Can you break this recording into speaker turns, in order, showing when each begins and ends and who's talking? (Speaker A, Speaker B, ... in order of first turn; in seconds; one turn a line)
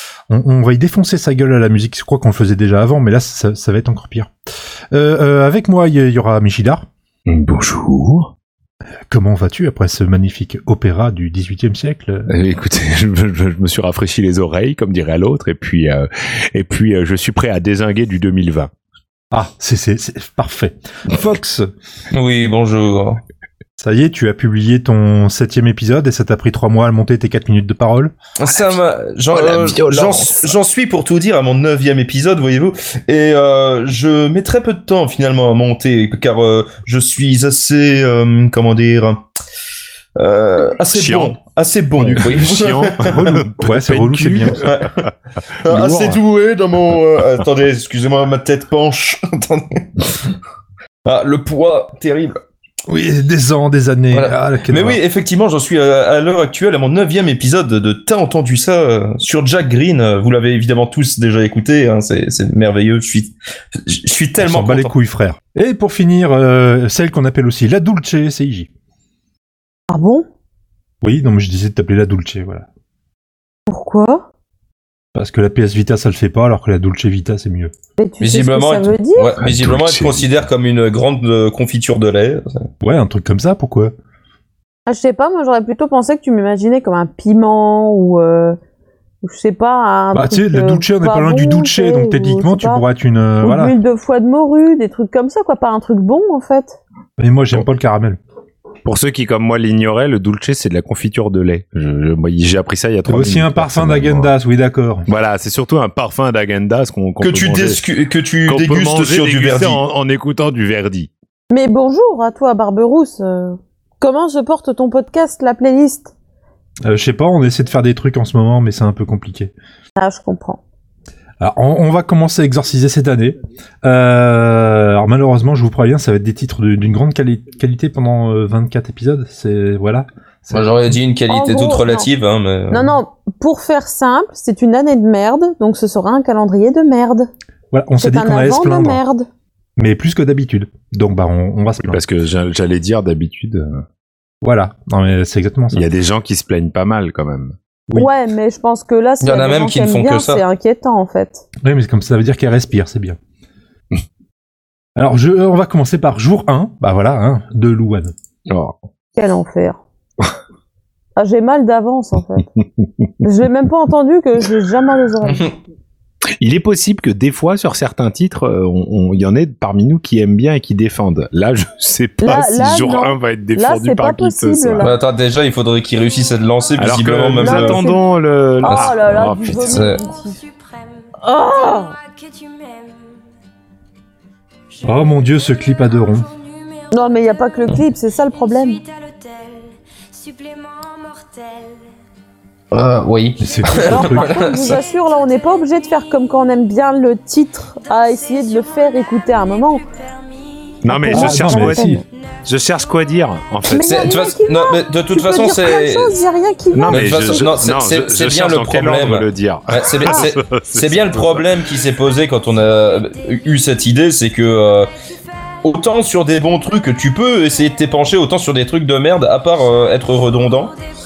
Speaker A: 0.3-4.3
Speaker A: 4.9-6.8
Speaker B: 7.3-8.3
Speaker A: 9.1-12.3
Speaker B: 12.3-18.7
Speaker A: 19.3-21.7
Speaker C: 22.1-23.2
Speaker A: 23.8-28.1
Speaker C: 28.4-39.2
Speaker B: 28.5-28.8
Speaker B: 29.3-30.6
Speaker C: 40.2-43.4
Speaker B: 40.9-41.4
Speaker B: 42.0-45.1
Speaker A: 43.6-44.6
Speaker C: 44.6-44.9
Speaker C: 45.6-50.3
Speaker B: 45.7-46.2
Speaker C: 51.0-52.4
Speaker A: 52.9-55.0
Speaker C: 54.1-63.3
Speaker C: 63.9-64.9
Speaker A: 64.4-68.7
Speaker D: 69.9-70.2
Speaker A: 71.0-72.7
Speaker D: 73.7-74.3
Speaker A: 75.2-77.7
Speaker D: 78.0-79.3
Speaker C: 78.2-82.6
Speaker B: 79.4-80.3
Speaker A: 82.8-83.9
Speaker D: 84.9-88.6
Speaker D: 89.2-92.8
Speaker A: 90.1-93.8
Speaker D: 93.4-96.8
Speaker A: 97.2-98.2
Speaker B: 98.8-104.3
Speaker A: 103.1-105.1
Speaker B: 105.1-107.8
Speaker C: 107.2-109.8
Speaker B: 108.5-111.1
Speaker D: 111.5-116.1
Speaker A: 116.9-119.5
Speaker D: 120.0-120.6
Speaker A: 121.4-130.7
Speaker C: 130.5-132.9
Speaker D: 131.3-132.1
Speaker D: 132.7-137.3
Speaker A: 137.7-139.0
Speaker D: 138.0-139.3
Speaker A: 139.8-142.0
Speaker B: 141.8-143.8
Speaker A: 144.4-145.9
Speaker B: 145.7-147.5
Speaker D: 147.9-151.5
Speaker C: 149.2-150.4
Speaker A: 151.6-153.2
Speaker A: 155.0-158.1
Speaker B: 158.5-158.8
Speaker D: 159.2-159.8
Speaker D: 161.2-162.5
Speaker D: 163.2-165.4
Speaker C: 165.3-165.5
Speaker B: 166.4-174.9
Speaker D: 172.2-175.0
Speaker C: 174.8-177.9
Speaker B: 176.8-179.8
Speaker D: 177.4-178.0
Speaker D: 178.6-180.5
Speaker C: 178.7-180.0
Speaker D: 181.2-182.0
Speaker A: 184.8-186.3
Speaker D: 186.9-188.8
Speaker C: 192.7-194.8
Speaker A: 193.4-194.4
Speaker D: 193.8-199.8
Speaker B: 200.8-201.9
Speaker D: 200.9-202.0
Speaker A: 201.1-202.0
Speaker B: 202.4-203.9
Speaker D: 203.7-207.6
Speaker C: 203.7-206.2
Speaker B: 206.7-211.5
Speaker C: 206.9-214.9
Speaker D: 210.1-210.3
Speaker C: 215.6-220.8